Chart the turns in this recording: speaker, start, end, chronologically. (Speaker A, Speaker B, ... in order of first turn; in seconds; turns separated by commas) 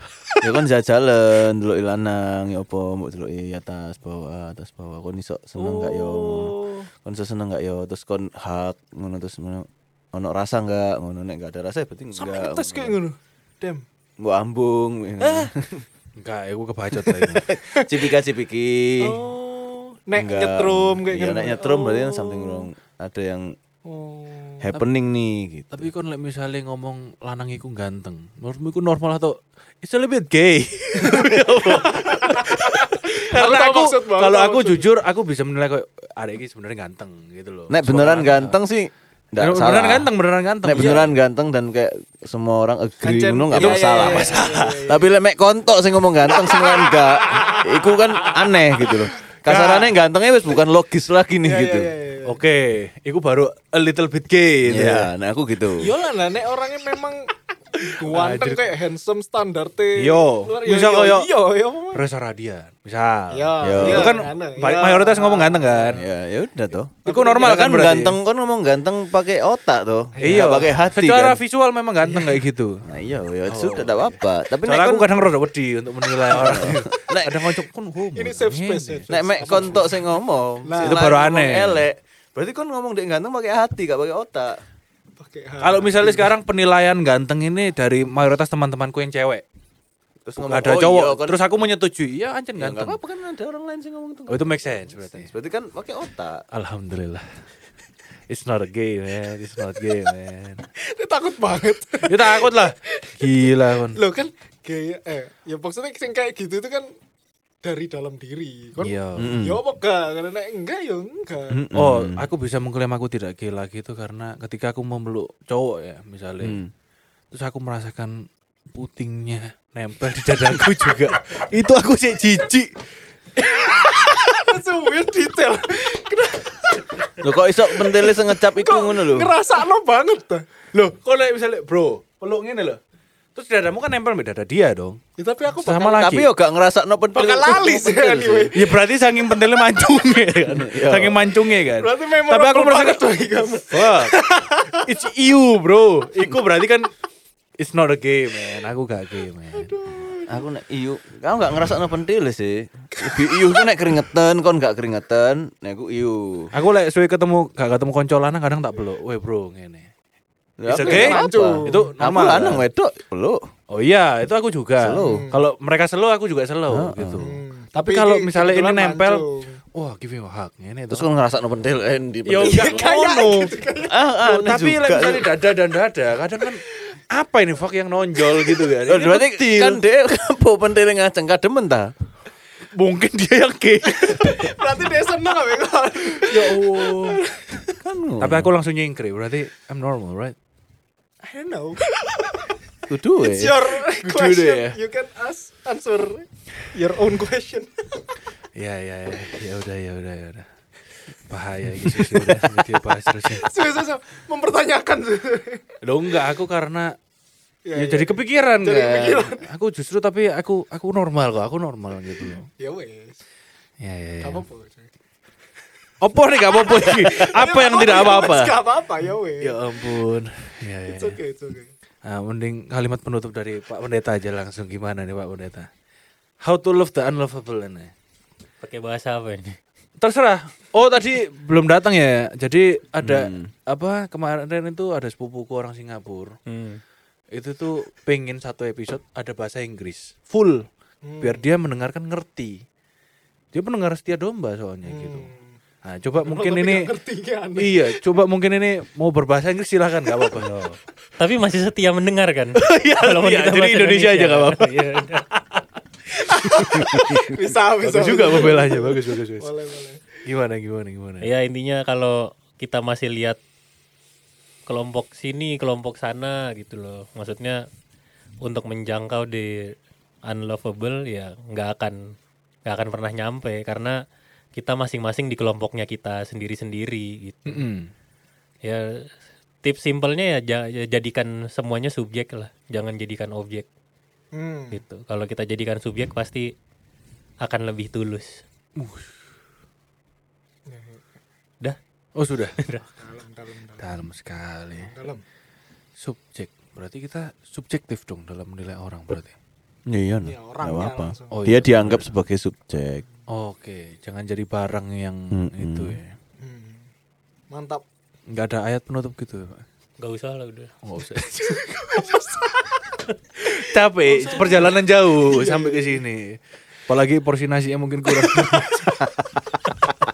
Speaker A: 0.4-12.9, Speaker B: 5.6-6.5, Speaker C: 12.1-13.8, Speaker A: 14.2-15.8, Speaker B: 16.1-17.4, Speaker C: 17.0-17.9, Speaker A: 17.5-19.2, Speaker C: 19.0-22.6, Speaker A: 20.1-23.5, Speaker C: 23.9-24.6, Speaker A: 24.6-25.9, Speaker B: 25.7-38.5, Speaker C: 31.0-34.9, Speaker A: 37.7-40.1, Speaker B: 39.4-41.1, Speaker A: 40.6-51.9, Speaker C: 43.0-45.1, Speaker B: 43.5-44.8, Speaker C: 46.3-48.9, Speaker B: 49.5-49.9, Speaker C: 51.4-52.4, Speaker B: 52.2-55.1, Speaker A: 54.6-55.9, Speaker C: 55.8-57.3, Speaker B: 57.8-58.7, Speaker C: 57.8-62.0, Speaker B: 60.0-61.3, Speaker B: 61.9-66.0, Speaker C: 63.3-66.0, Speaker A: 63.6-64.1, Speaker A: 66.0-71.4, Speaker C: 67.0-67.7, Speaker B: 67.0-68.2, Speaker C: 70.1-70.7, Speaker B: 70.2-72.8, Speaker C: 72.0-72.4, Speaker A: 72.8-75.1, Speaker B: 73.5-79.7, Speaker A: 76.3-77.3, Speaker C: 78.2-80.0, Speaker A: 79.1-84.6, Speaker C: 80.6-81.0, Speaker B: 80.8-81.8, Speaker C: 85.2-86.3, Speaker B: 85.6-89.4, Speaker A: 90.2-91.4, Speaker B: 90.4-93.0, Speaker A: 92.6-96.4, Speaker B: 94.3-95.3, Speaker B: 96.5-97.2, Speaker B: 98.3-100.6, Speaker C: 100.8-106.9, Speaker B: 102.1-104.0, Speaker C: 107.6-111.6, Speaker B: 108.8-109.4, Speaker A: 109.2-109.6, Speaker A: 111.5-112.3, Speaker B: 111.7-116.6, Speaker A: 116.4-116.7, Speaker B: 117.3-122.7, Speaker B: 123.4-123.7, Speaker C: 123.4-130.5, Speaker A: 127.2-129.3, Speaker B: 130.7-132.8, Speaker B: 133.3-135.0, Speaker C: 135.2-136.1, Speaker B: 135.6-136.3, Speaker A: 135.9-138.5, Speaker C: 137.1-138.7, Speaker B: 138.5-143.1, Speaker A: 140.5-141.2, Speaker C: 141.7-145.0, Speaker B: 143.6-144.2, Speaker B: 144.7-146.9, Speaker B: 147.6-149.7, Speaker C: 149.5-150.4, Speaker A: 150.3-156.5, Speaker C: 152.9-153.7, Speaker B: 156.5-159.9, Speaker A: 160.6-163.4, Speaker B: 160.7-162.6, Speaker C: 160.8-161.9, Speaker B: 163.7-171.1, Speaker A: 164.8-165.3, Speaker C: 165.0-165.4, Speaker A: 166.7-167.2, Speaker C: 167.2-169.6, Speaker A: 170.9-172.9, Speaker B: 172.2-173.6, Speaker C: 172.4-174.0, Speaker A: 173.9-175.3, Speaker B: 174.2-179.8, Speaker C: 178.2-178.6, Speaker A: 178.9-181.9, Speaker B: 182.7-184.6, Speaker C: 183.8-187.8, Speaker B: 186.1-187.2, Speaker A: 187.8-188.5, Speaker B: 188.2-190.3, Speaker C: 191.2-192.5, Speaker A: 192.9-193.6, Speaker C: 193.1-198.0, Speaker B: 193.8-194.8, Speaker B: 198.6-200.5, Speaker B: 201.3-203.5, Speaker C: 202.2-205.8, Speaker B: 205.8-206.9, Speaker C: 207.6-209.4, Speaker B: 207.7-212.5, Speaker C: 212.6-213.2, Speaker B: 213.8-214.4, Speaker C: 214.2-214.9, Speaker B: 216.0-218.6, Speaker C: 216.5-220.0, Speaker B: 219.4-221.2, Speaker C: 220.9-221.7, Speaker B: 222.0-225.7, Speaker B: 226.4-227.9, Speaker D: 228.6-229.6, Speaker B: 230.0-236.3, Speaker A: 233.0-233.5, Speaker D: 236.5-236.8, Speaker B: 237.3-240.6, Speaker C: 241.0-241.5, Speaker B: 241.2-242.6, Speaker B: 243.5-245.3, Speaker C: 244.8-245.6, Speaker B: 245.8-246.9, Speaker C: 246.1-248.0, Speaker B: 247.6-250.7, Speaker D: 250.5-255.2, Speaker B: 252.6-255.6, Speaker C: 256.1-260.2, Speaker B: 256.4-259.5, Speaker B: 260.2-261.3, Speaker D: 261.2-263.4, Speaker D: 264.7-267.6, Speaker D: 268.4-269.7, Speaker D: 270.2-272.1, Speaker D: 272.6-274.0, Speaker D: 274.6-277.7, Speaker B: 277.5-277.9, Speaker D: 278.6-279.1, Speaker D: 279.6-283.7, Speaker C: 284.3-284.8, Speaker D: 284.7-286.5, Speaker D: 287.4-288.4, Speaker B: 288.8-289.1, Speaker C: 290.7-291.0, Speaker B: 292.1-292.6, Speaker D: 292.6-292.8, Speaker C: 292.9-294.0, Speaker B: 293.8-294.9, Speaker C: 294.8-295.2, Speaker B: 296.0-299.3, Speaker A: 299.9-303.0, Speaker C: 300.2-301.5, Speaker B: 301.3-302.1, Speaker B: 303.3-306.1, Speaker A: 305.3-306.0, Speaker C: 306.4-306.9, Speaker C: 307.5-307.8, Speaker B: 308.3-309.6, Speaker D: 310.0-310.7, Speaker B: 310.8-312.1, Speaker C: 311.5-316.0, Speaker B: 313.4-319.7, Speaker C: 318.2-318.9